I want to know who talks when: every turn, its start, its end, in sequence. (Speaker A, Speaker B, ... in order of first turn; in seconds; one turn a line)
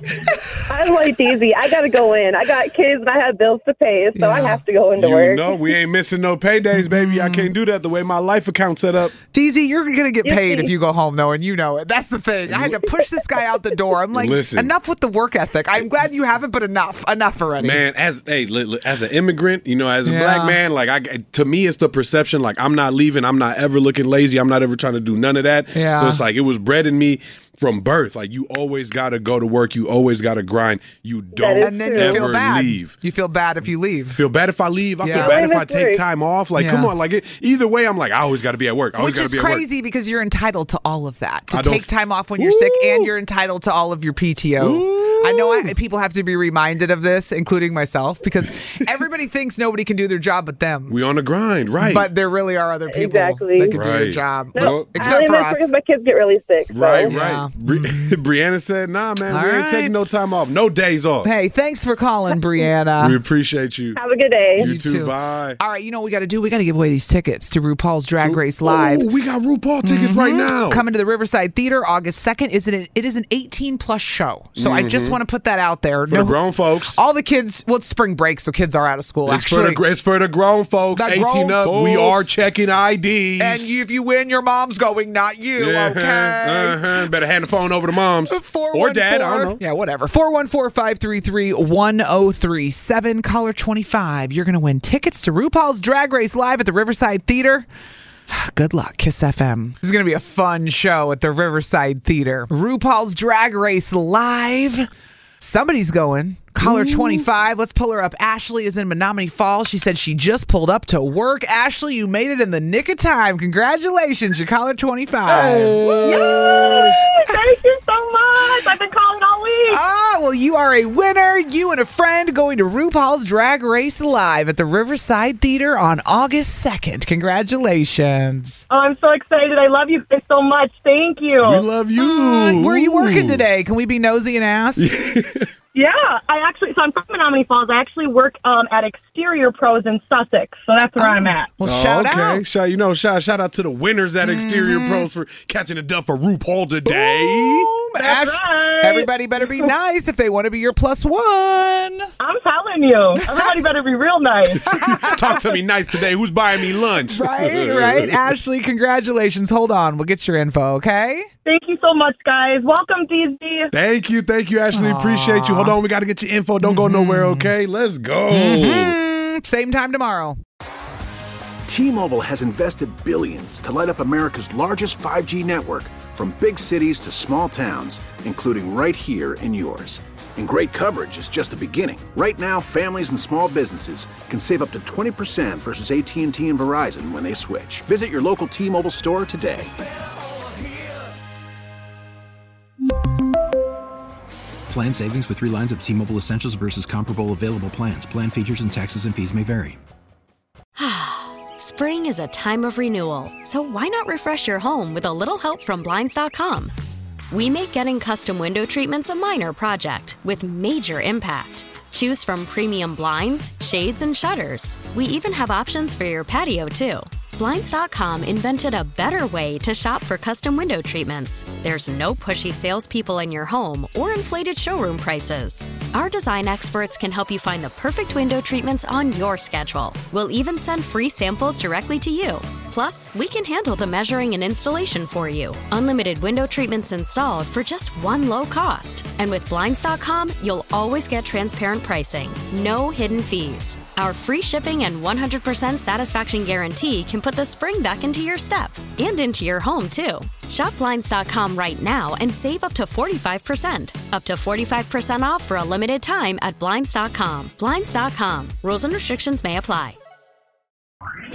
Speaker A: 0.7-5.7
Speaker B: 4.2-4.6
Speaker C: 5.0-9.1
Speaker B: 6.8-7.5
Speaker B: 9.3-17.8
Speaker A: 10.2-10.7
Speaker C: 12.5-12.8
Speaker C: 14.1-14.7
Speaker C: 17.6-33.0
Speaker B: 20.1-20.6
Speaker B: 25.7-26.2
Speaker A: 31.3-32.2
Speaker B: 31.6-34.2
Speaker C: 34.1-39.7
Speaker B: 35.0-35.4
Speaker A: 35.1-36.0
Speaker B: 36.6-36.9
Speaker B: 39.0-51.0
Speaker C: 41.5-43.1
Speaker C: 44.6-45.7
Speaker C: 50.9-52.1
Speaker B: 51.8-55.7
Speaker A: 52.9-53.8
Speaker C: 53.7-55.1
Speaker A: 54.5-57.1
Speaker C: 56.7-61.3
Speaker B: 57.0-58.2
Speaker B: 59.3-60.0
Speaker B: 61.2-63.2
Speaker A: 62.3-62.7
Speaker C: 63.0-64.0
Speaker A: 63.9-64.7
Speaker C: 64.6-65.6
Speaker B: 64.6-69.1
Speaker C: 68.2-70.8
Speaker B: 69.8-76.4
Speaker C: 74.6-75.2
Speaker C: 76.1-77.0
Speaker B: 76.9-79.8
Speaker C: 79.3-83.7
Speaker B: 81.0-82.3
Speaker B: 83.4-86.8
Speaker C: 85.6-89.6
Speaker B: 88.3-97.7
Speaker B: 98.3-104.9
Speaker B: 105.4-116.2
Speaker C: 106.6-107.3
Speaker C: 115.3-117.0
Speaker A: 116.0-119.8
Speaker B: 119.7-128.6
Speaker A: 128.7-131.7
Speaker C: 131.4-133.4
Speaker B: 132.0-134.9
Speaker C: 134.8-135.5
Speaker A: 135.8-141.5
Speaker B: 141.0-142.4
Speaker C: 141.6-147.7
Speaker B: 144.2-145.1
Speaker B: 146.9-152.1
Speaker A: 148.0-149.7
Speaker A: 152.2-154.7
Speaker B: 153.2-153.6
Speaker C: 154.6-158.3
Speaker B: 154.7-155.5
Speaker B: 157.1-161.3
Speaker A: 161.5-163.7
Speaker C: 163.7-169.0
Speaker B: 164.7-165.8
Speaker B: 166.6-167.5
Speaker B: 168.3-170.4
Speaker D: 171.7-189.7
Speaker E: 194.7-199.8
Speaker F: 200.8-206.7
Speaker F: 207.3-260.0